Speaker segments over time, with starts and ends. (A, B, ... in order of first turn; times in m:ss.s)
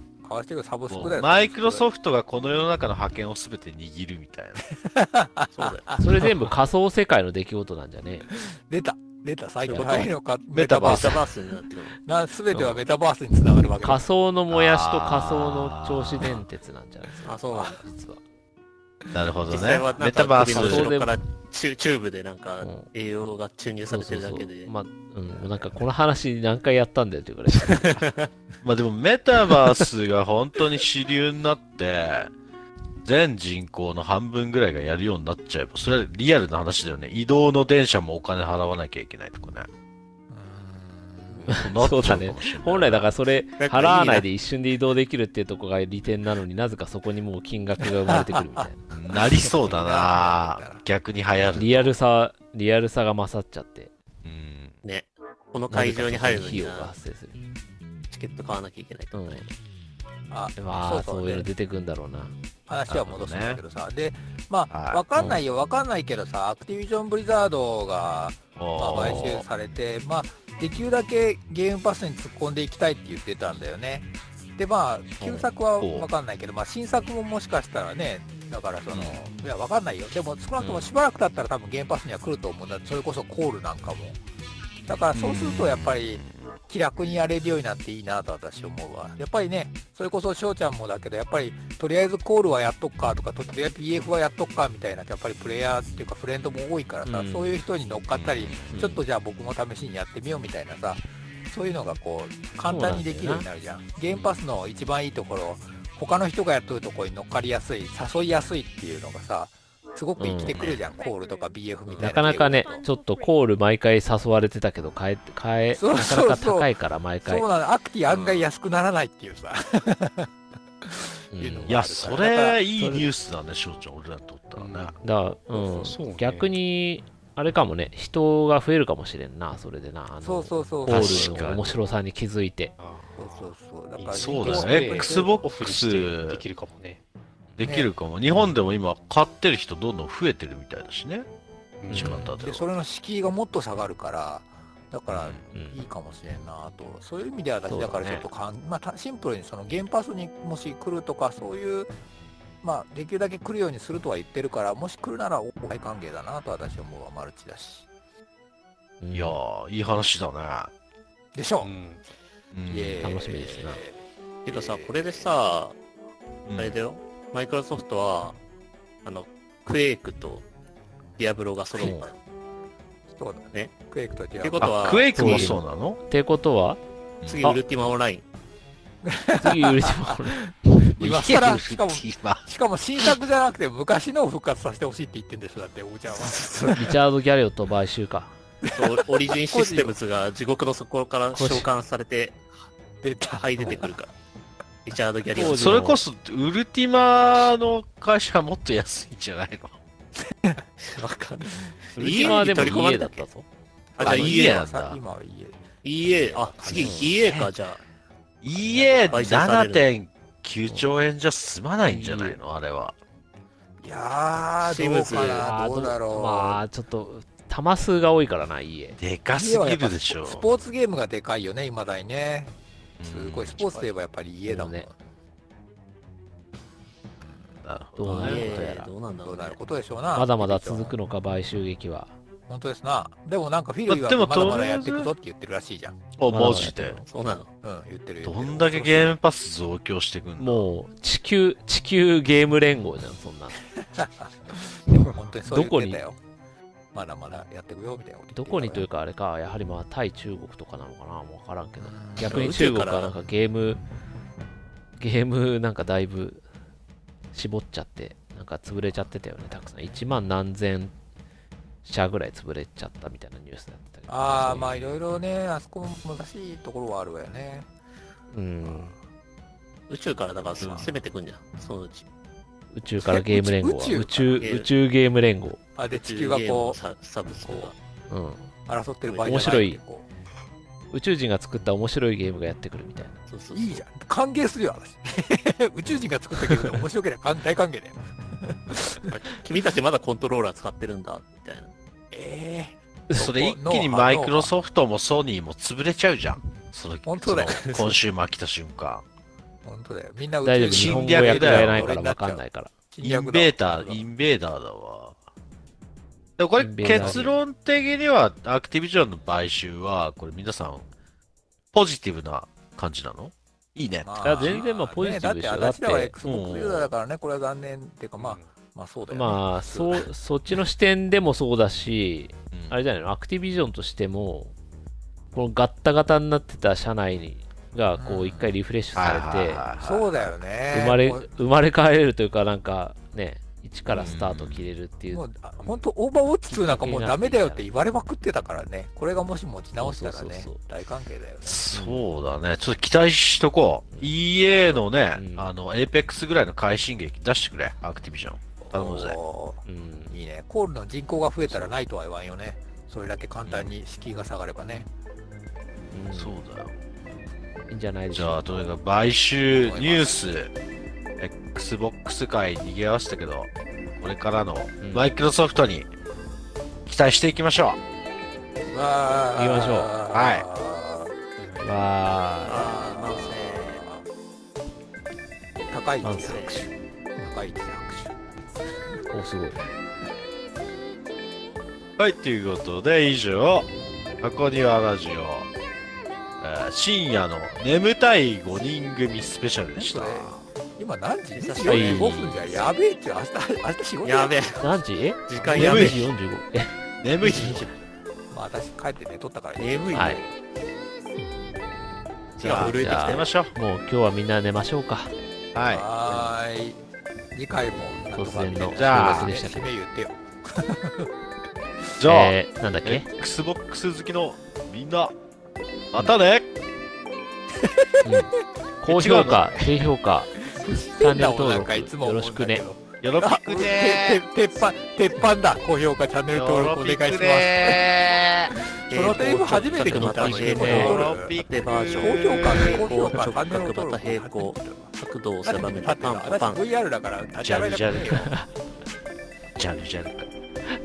0:00.2-0:01.8 A
0:00.9-0:04.6 B
0:04.8-0:06.3 A
0:05.5-0:06.0 C
0:06.0-0:08.3 D
0:08.3-0:11.3 A
0:09.7-0:11.2 D
0:09.7-0:10.1 C
0:10.8-0:12.0 C
0:12.0-0:14.0 A
0:12.5-0:12.8 D
0:13.8-0:17.3 D
0:14.5-0:16.4 B
0:17.2-0:17.8 C
0:17.8-0:18.2 D
0:19.1-0:21.0 B
0:19.5-0:24.7 C
0:20.3-0:21.2 D
0:22.6-0:22.9 D
0:23.9-0:28.1 D
0:25.3-0:25.8 C
0:28.0-0:28.3 C
0:28.6-0:32.3 B
0:33.0-0:39.7 B
0:40.3-0:41.6 A
0:41.5-0:43.1 B
0:41.5-0:48.8 D
0:43.6-0:44.3 C
0:47.8-0:50.8 A
0:48.9-0:51.9 B
0:51.6-0:53.9 D
0:54.2-0:54.8 B
0:54.8-0:56.9 C
0:55.7-0:56.2 B
0:56.0-0:57.4 D
0:58.1-0:59.5 C
0:59.1-0:59.5 D
1:00.3-1:01.5 A
1:00.6-1:02.3 D
1:02.7-1:24.2 A
1:02.9-1:03.6 B
1:04.7-1:05.0 B
1:08.6-1:09.4 B
1:09.0-1:09.3 D
1:15.2-1:15.5 D
1:15.8-1:16.1 B
1:20.6-1:20.9 D
1:24.9-1:52.8 A
1:25.2-1:26.3 B
1:37.1-1:37.6 D
1:38.1-1:38.8 B
1:38.7-1:39.0 D
1:42.7-1:43.5 D
1:44.1-1:44.4 D
1:50.2-1:50.6 D
1:50.5-1:50.9 C
1:51.9-1:52.3 C
1:52.0-1:57.4 D
1:55.8-1:56.7 A
1:57.2-2:00.3 A
1:58.1-1:58.5 C
2:00.8-2:02.6 A
2:01.3-2:01.8 D
2:01.7-2:05.0 B
2:02.8-2:03.1 D
2:04.6-2:12.7 D
2:05.6-2:06.5 E
2:10.2-2:11.5 A
2:10.9-2:11.7 B
2:12.8-2:13.3 E
2:13.2-2:15.3 A
2:14.0-2:17.0 E
2:14.2-2:16.4 B
2:17.6-2:21.3 B
2:17.6-2:17.9 A
2:21.8-2:22.2 E
2:21.9-2:22.4 D
2:21.9-2:22.7 B
2:22.4-2:31.9 A
2:25.1-2:25.5 B
2:25.5-2:25.8 D
2:27.7-2:28.2 D
2:32.6-2:37.9 A
2:39.0-2:39.4 D
2:39.1-2:40.7 B
2:41.4-2:41.7 A
2:41.6-2:42.0 E
2:42.5-2:43.0 B
2:42.7-2:45.3 A
2:43.0-2:43.8 D
2:44.4-2:45.8 C
2:46.5-2:46.8 B
2:46.6-2:48.4 C
2:49.0-2:50.4 C
2:51.2-2:52.2 C
2:51.8-2:52.1 D
2:53.1-2:55.6 A
2:54.4-2:55.5 C
2:54.6-2:56.0 B
2:55.2-2:56.8 D
2:57.2-2:57.6 B
2:57.2-2:58.2 C
2:59.0-3:07.0 A
2:59.4-3:00.4 D
3:01.0-3:02.5 B
3:06.2-3:06.7 C
3:06.7-3:08.3 D
3:08.6-3:10.0 A
3:08.7-3:12.4 C
3:11.3-3:11.7 D
3:13.0-3:14.0 A
3:13.4-3:14.1 C
3:14.9-3:15.8 C
3:15.3-3:16.0 D
3:15.4-3:19.8 B
3:20.8-3:23.3 C
3:21.6-3:22.6 A
3:22.0-3:23.5 D
3:24.0-3:27.5 A
3:24.0-3:24.6 C
3:24.0-3:25.0 B
3:25.8-3:27.8 C
3:26.7-3:27.1 D
3:28.4-3:33.0 B
3:28.6-3:29.2 A
3:29.0-3:29.8 C
3:31.8-3:32.4 D
3:33.8-3:36.6 A
3:34.6-3:35.5 C
3:35.4-3:39.0 D
3:39.0-3:40.5 B
3:39.3-3:42.5 A
3:43.0-3:43.9 B
3:43.0-3:45.0 A
3:44.5-3:44.9 D
3:47.6-3:48.4 B
3:48.0-3:48.9 D
3:48.1-3:49.6 C
3:48.2-3:48.7 A
3:49.2-3:51.0 A
3:50.2-3:52.1 D
3:52.5-3:56.0 A
3:53.9-3:55.1 B
3:56.2-3:57.0 B
3:56.3-3:57.0 D
3:57.0-3:57.5 C
3:57.6-3:59.2 A
3:58.2-4:00.7 B
4:00.4-4:03.6 D
4:03.8-4:06.2 A
4:05.5-4:06.0 D
4:06.9-4:08.9 A
4:08.4-4:13.8 D
4:11.8-4:12.7 A
4:12.2-4:13.2 C
4:15.0-4:16.4 D
4:17.3-4:20.9 D
4:21.8-4:25.0 D
4:24.1-4:27.7 A
4:28.3-4:29.0 D
4:28.6-4:28.9 A
4:29.9-4:32.1 C
4:30.4-4:30.9 A
4:32.7-4:35.6 D
4:33.0-4:34.5 A
4:34.4-4:34.7 C
4:35.8-4:36.8 A
4:35.9-4:37.8 C
4:37.4-4:37.7 A
4:38.1-4:38.5 D
4:38.7-4:40.1 A
4:39.1-4:39.6 C
4:39.3-4:39.8 D
4:40.9-4:43.2 D
4:43.3-4:43.8 C
4:43.5-4:49.2 A
4:46.4-4:46.8 D
4:49.1-4:51.7 C
4:52.1-4:54.5 A
4:53.1-4:59.0 B
4:57.1-4:58.0 A
4:59.6-5:04.0 A
5:00.4-5:02.7 D
5:00.7-5:02.0 B
5:03.0-5:05.2 B
5:06.4-5:10.9 B
5:06.6-5:07.4 D
5:07.0-5:07.3 A
5:11.7-5:14.6 B
5:14.0-5:20.1 A
5:14.2-5:16.1 D
5:16.2-5:16.9 B
5:18.2-5:18.4 E
5:19.1-5:24.5 D
5:25.3-5:29.7 D
5:28.0-5:28.5 A
5:29.0-5:30.3 B
5:29.8-5:31.3 A
5:30.7-5:35.3 D
5:33.9-5:34.7 B
5:35.1-5:41.7 A
5:36.5-5:37.6 D
5:39.8-5:40.6 D
5:41.4-5:49.2 B
5:41.7-5:42.0 D
5:45.2-5:45.5 D
5:48.6-5:54.9 A
5:49.7-5:50.1 D
5:55.9-5:56.4 D
5:56.1-5:56.8 B
5:57.7-5:58.7 D
5:58.1-6:00.5 B
5:59.6-6:00.2 A
6:01.2-6:05.9 B
6:04.8-6:05.1 D
6:06.9-6:07.8 B
6:08.7-6:11.2 A
6:09.4-6:09.9 D
6:10.1-6:10.4 B
6:11.6-6:12.6 D
6:12.4-6:13.9 C
6:12.4-6:14.0 A
6:15.7-6:18.2 A
6:16.0-6:16.7 D
6:16.2-6:16.6 C
6:19.1-6:19.6 D
6:22.0-6:23.7 B
6:24.2-6:25.5 B
6:26.4-6:30.3 B
6:29.8-6:34.6 A
6:31.3-6:32.3 C
6:31.7-6:32.4 D
6:34.0-6:34.7 C
6:34.6-6:37.7 D
6:35.3-6:36.1 C
6:35.5-6:36.0 B
6:37.0-6:37.8 B
6:38.3-6:40.3 A
6:39.6-6:40.3 C
6:39.9-6:40.2 D
6:42.4-6:43.5 B
6:42.4-6:43.3 C
6:42.4-6:45.1 D
6:45.5-6:45.9 B
6:45.7-6:51.1 A
6:48.1-6:49.7 D
6:48.8-6:49.4 B
6:52.0-6:52.3 B
6:52.0-6:53.1 D
6:52.8-6:55.1 B
6:55.9-6:56.5 B
6:57.6-6:58.1 A
6:58.0-7:02.6 D
6:58.9-6:59.8 B
7:00.4-7:07.9 A
7:03.0-7:04.2 B
7:06.3-7:08.5 B
7:08.6-7:11.3 A
7:08.9-7:16.6 C
7:09.7-7:11.1 D
7:10.2-7:13.0 B
7:11.9-7:14.9 A
7:15.4-7:18.4 A
7:17.4-7:18.3 B
7:18.1-7:18.5 D
7:19.6-7:20.3 B